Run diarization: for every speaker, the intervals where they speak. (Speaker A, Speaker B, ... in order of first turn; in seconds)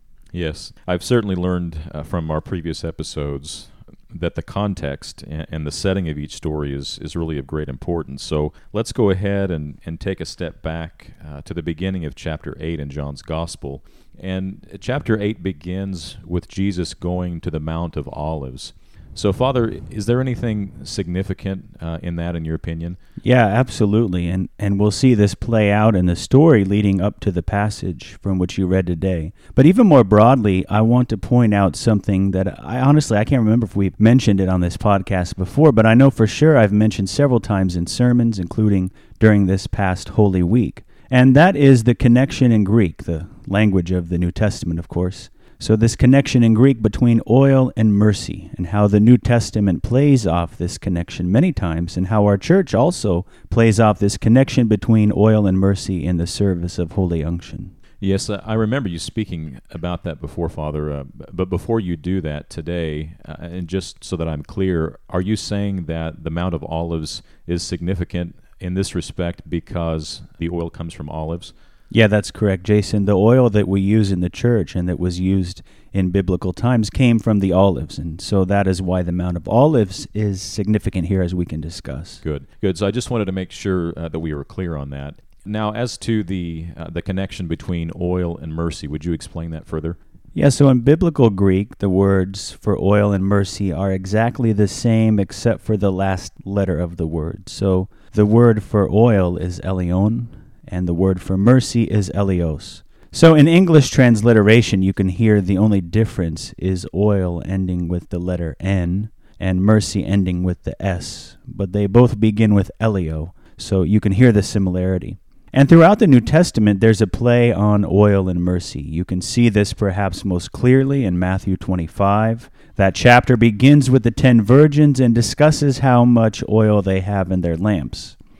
Speaker A: 0.3-23.0, 58.0-71.5, 82.2-90.0
Speaker B: 23.2-57.7, 71.9-82.2, 90.3-128.2